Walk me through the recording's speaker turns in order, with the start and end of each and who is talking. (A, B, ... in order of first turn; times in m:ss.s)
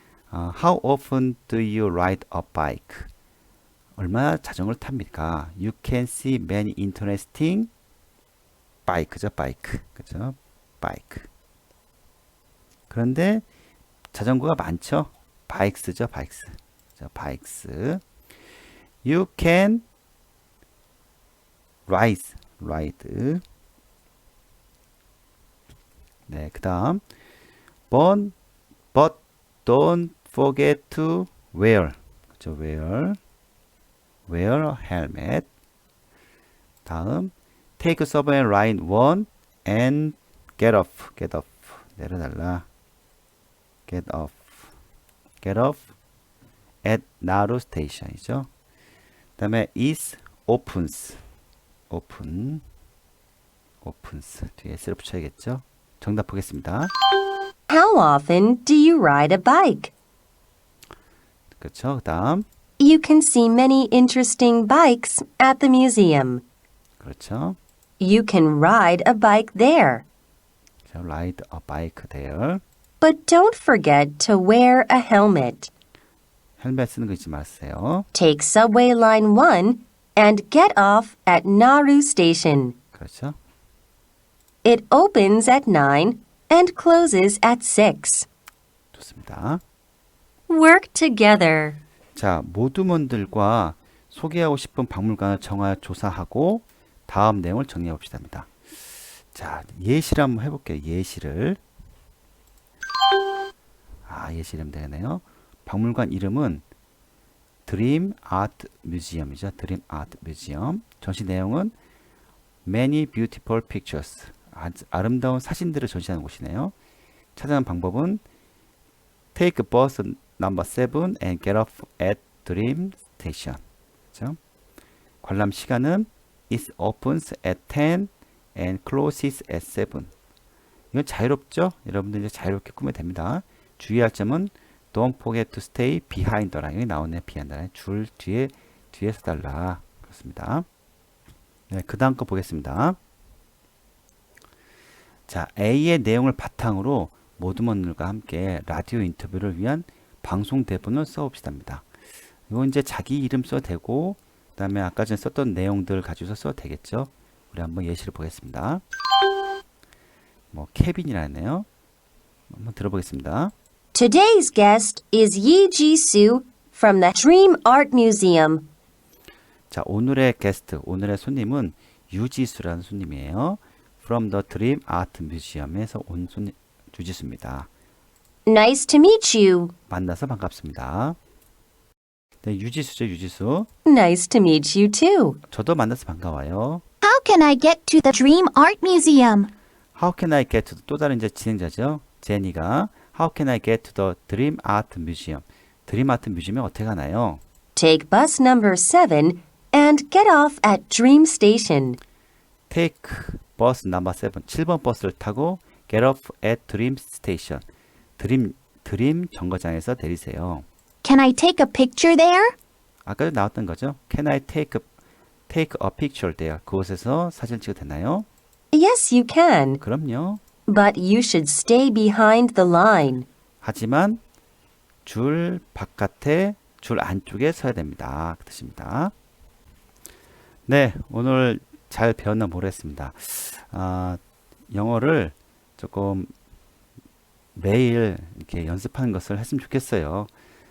0:00.3-0:03.1 A
0:04.0-0:07.7 A
0:08.9-0:11.3 A
0:12.9-0:13.5 A
0:14.1-0:18.0 A
0:19.0-0:19.8 A
0:21.9-0:23.4 A
0:26.3-0:27.0 A
0:27.9-0:28.4 A
0:28.9-0:33.2 A
0:34.3-0:35.5 A
0:36.9-0:42.6 A
0:43.9-0:44.7 A
0:45.4-0:45.9 A
0:46.8-0:48.5 A
0:49.4-0:51.2 A
0:51.9-0:52.6 A
0:53.8-0:56.9 A
0:57.7-0:59.9 B
1:01.6-1:02.4 A
1:02.8-1:06.4 B
1:07.0-1:07.6 A
1:08.0-1:10.0 B
1:10.9-1:12.6 A
1:13.0-1:15.7 B
1:16.6-1:18.1 A
1:18.1-1:22.8 B
1:22.9-1:23.4 A
1:24.6-1:28.3 B
1:28.9-1:29.6 A
1:30.5-1:31.8 B
1:32.2-1:38.5 A
1:39.3-1:41.6 A
1:44.1-1:46.6 A
1:47.7-1:51.7 A
1:52.6-1:56.7 A
1:57.4-1:58.2 A
1:59.4-2:03.6 A
2:04.1-2:04.4 A
2:05.2-2:10.1 A
2:10.9-2:20.6 A
2:21.7-2:23.0 A
2:25.3-2:31.8 A
2:32.5-2:38.8 A
2:40.5-2:41.7 A
2:42.5-2:43.5 A
2:43.9-2:48.6 B
2:49.7-2:57.7 A
2:58.5-2:59.7 B
2:59.9-3:01.2 A
3:02.4-3:03.7 A
3:03.9-3:05.4 B
3:05.5-3:06.8 A
3:07.0-3:09.5 C
3:10.0-3:17.4 A
3:17.8-3:22.0 B
3:22.7-3:27.6 A
3:28.2-3:30.6 A
3:31.0-3:32.5 C
3:33.0-3:34.9 A
3:35.5-3:38.3 A
3:38.7-3:39.8 B
3:39.8-3:40.4 A
3:40.7-3:43.3 B
3:43.6-3:44.2 A
3:45.0-3:49.1 A
3:50.7-3:54.2 A
3:54.7-3:56.3 A
3:57.6-4:00.3 A